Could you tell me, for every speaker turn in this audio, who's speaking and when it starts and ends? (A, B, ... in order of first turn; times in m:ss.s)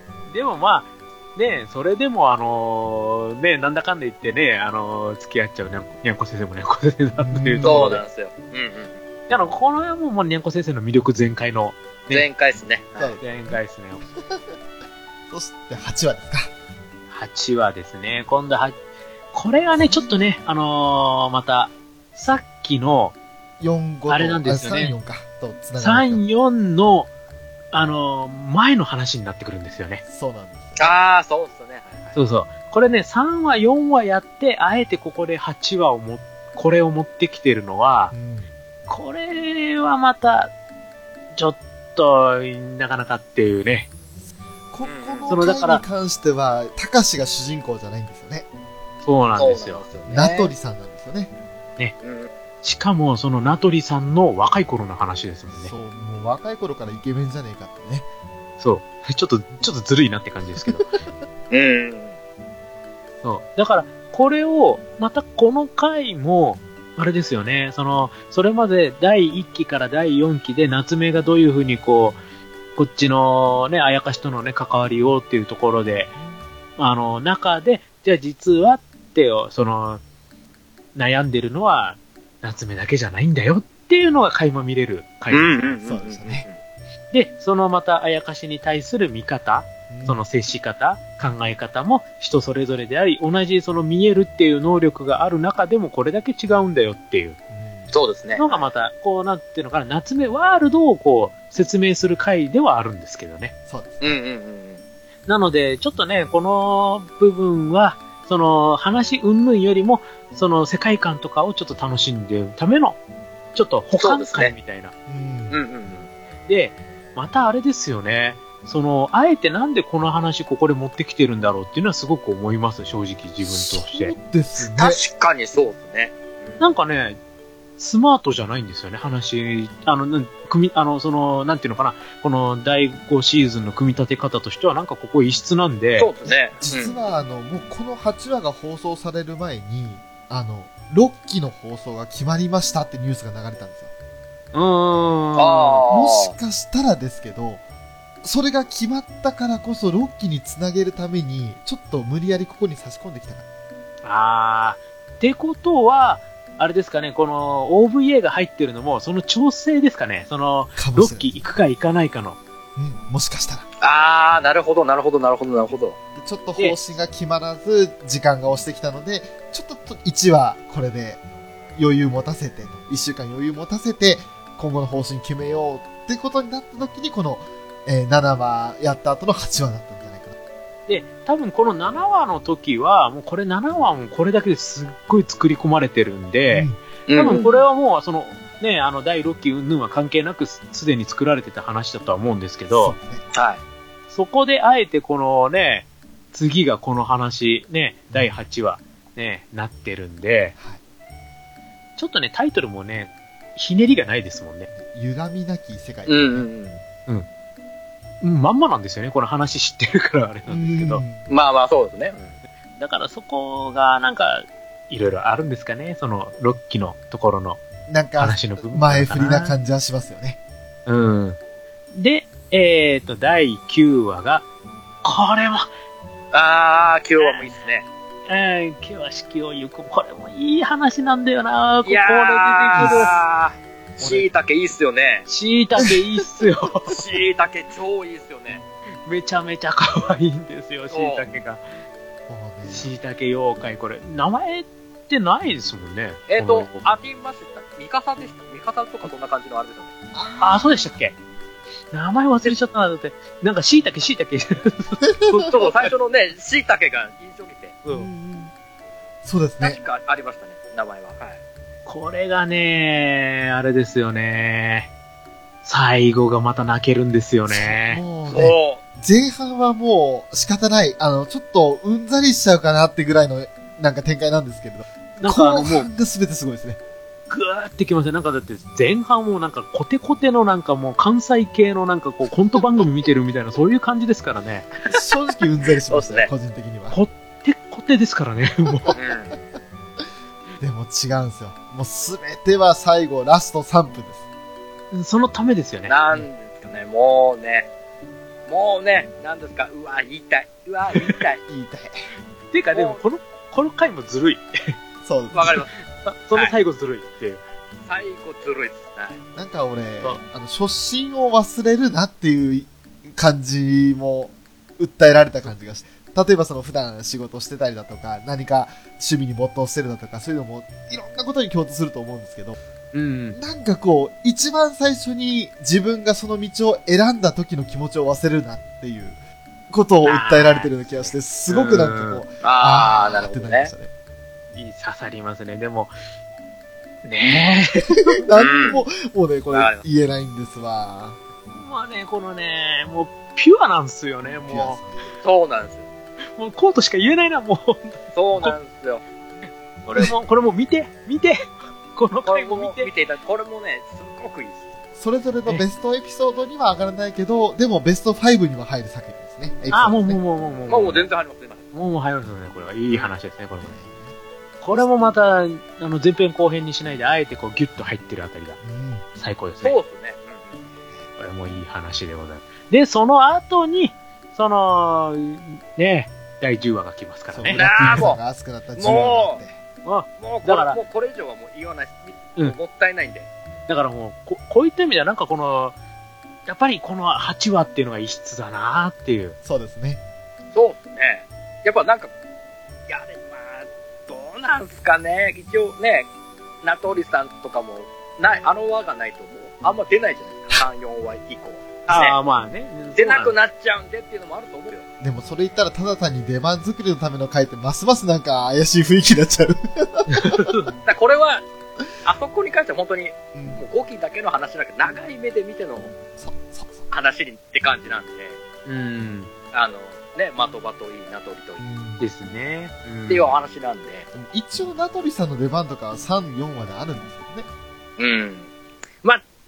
0:00.3-0:08.0 A
0:07.2-0:07.9 B
0:07.6-0:09.0 C
0:09.3-0:12.3 A
0:12.1-0:13.2 C
0:13.0-0:13.6 B
0:13.2-0:14.0 A
0:14.1-0:14.6 B
0:15.3-0:16.5 B
0:17.1-0:18.8 A
0:19.3-0:23.2 A
0:19.7-0:20.4 B
0:23.6-0:26.2 B
0:24.1-0:25.0 A
0:25.8-0:27.1 A
0:27.7-0:30.0 A
0:30.1-0:30.9 B
0:30.8-0:32.2 C
0:32.2-0:38.1 A
0:38.1-0:38.5 B
0:38.9-0:40.5 A
0:41.4-0:43.9 A
0:44.7-0:48.5 B
0:44.8-0:45.3 C
0:45.3-0:45.8 A
0:49.0-0:49.8 A
0:49.4-0:50.5 C
0:50.1-0:51.3 B
0:52.0-0:52.3 C
0:52.6-0:55.7 A
0:55.5-0:58.1 B
0:58.6-1:00.9 A
1:01.5-1:02.2 C
1:03.2-1:12.2 A
1:12.8-1:16.2 A
1:16.2-1:16.4 B
1:16.8-1:20.0 A
1:21.0-1:25.6 A
1:25.3-1:26.6 C
1:25.8-1:26.5 B
1:27.1-1:37.4 A
1:29.9-1:30.2 B
1:37.5-1:37.9 B
1:37.9-1:38.7 C
1:38.4-1:43.5 A
1:43.7-1:44.1 B
1:44.0-1:44.8 C
1:45.3-1:53.0 A
1:53.6-1:54.9 A
1:54.0-1:54.6 C
1:55.1-1:55.6 B
1:55.5-1:56.1 C
1:56.5-2:04.2 A
2:03.4-2:05.0 B
2:04.6-2:06.6 C
2:06.6-2:07.2 A
2:07.8-2:16.1 A
2:16.0-2:17.0 C
2:16.6-2:23.9 B
2:24.5-2:25.8 A
2:25.4-2:26.3 C
2:25.9-2:27.6 B
2:28.2-2:33.4 B
2:34.0-2:42.4 A
2:40.8-2:41.4 B
2:42.8-2:43.7 B
2:43.8-2:46.0 C
2:46.2-2:51.2 B
2:51.8-3:00.4 B
3:00.9-3:13.0 A
3:06.5-3:06.8 B
3:07.1-3:07.6 C
3:12.7-3:13.2 B
3:13.3-3:13.6 C
3:14.1-3:20.6 A
3:18.1-3:18.4 B
3:22.0-3:24.7 A
3:24.7-3:26.5 B
3:26.1-3:26.8 C
3:28.2-3:31.0 A
3:30.5-3:31.3 B
3:31.3-3:32.4 C
3:32.8-3:37.6 A
3:37.9-3:40.4 B
3:38.2-3:39.6 A
3:40.9-3:41.4 A
3:41.9-3:44.5 A
3:45.0-3:45.7 A
3:46.3-3:47.9 C
3:47.2-3:47.5 A
3:48.3-3:53.1 A
3:51.8-3:55.3 C
3:52.8-3:53.1 B
3:54.0-3:54.3 B
3:55.3-3:57.0 A
3:56.9-3:58.6 C
3:59.0-4:01.6 A
4:00.9-4:01.2 C
4:02.3-4:02.9 B
4:02.7-4:06.9 A
4:06.3-4:09.9 C
4:10.1-4:11.0 B
4:10.4-4:11.2 A
4:11.9-4:15.7 A
4:15.0-4:15.5 B
4:15.5-4:17.8 C
4:17.9-4:18.5 B
4:19.2-4:19.8 B
4:19.6-4:21.4 C
4:21.9-4:24.9 A
4:25.6-4:28.0 A
4:27.5-4:36.8 B
4:28.3-4:28.8 C
4:35.2-4:35.9 A
4:37.3-4:44.7 A
4:44.9-4:47.0 B
4:45.9-4:46.3 C
4:46.9-4:49.0 A
4:49.0-4:49.4 C
4:50.6-4:54.2 B
4:54.9-4:56.0 A
4:55.9-4:57.7 C
4:58.5-5:01.4 C
5:01.5-5:02.0 B
5:02.5-5:04.8 A
5:02.7-5:03.0 C
5:05.0-5:05.6 B
5:05.3-5:05.7 C
5:05.9-5:07.4 A
5:07.9-5:09.2 C
5:09.4-5:22.6 B
5:22.9-5:23.4 A
5:23.4-5:33.9 B
5:30.0-5:32.2 A
5:32.4-5:33.7 C
5:34.5-5:35.9 A
5:37.0-5:38.2 A
5:38.1-5:41.2 B
5:38.4-5:38.8 C
5:39.5-5:39.8 C
5:41.6-5:44.8 A
5:44.3-5:45.1 B
5:45.2-5:45.9 C
5:46.4-5:48.6 A
5:48.1-5:49.0 C
5:49.9-5:52.9 A
5:52.3-5:54.6 C
5:55.0-6:00.2 B
5:59.7-6:01.1 A
6:00.7-6:01.6 C
6:01.7-6:03.8 A
6:03.6-6:04.2 B
6:04.6-6:08.6 A
6:08.6-6:09.0 B
6:09.2-6:09.8 A
6:09.6-6:10.6 C
6:11.2-6:18.1 A
6:17.3-6:19.6 B
6:17.5-6:18.2 C
6:18.8-6:19.4 C
6:19.8-6:20.8 A
6:20.2-6:23.3 C
6:23.7-6:25.8 A
6:26.5-6:29.4 A
6:29.4-6:30.0 B
6:30.5-6:32.1 C
6:32.9-6:36.1 C
6:36.6-6:42.2 C
6:41.9-6:43.4 A
6:43.0-6:44.8 C
6:45.0-6:50.5 B
6:50.1-6:50.7 A
6:50.9-6:51.4 C
6:52.0-6:55.9 C
6:53.3-6:53.6 B
6:56.2-6:56.9 B
6:56.9-6:58.4 C
6:58.7-6:59.3 A
6:59.5-7:01.6 C
7:01.6-7:02.0 B
7:02.0-7:03.3 A
7:03.1-7:04.1 C
7:04.1-7:07.5 B
7:08.0-7:08.5 C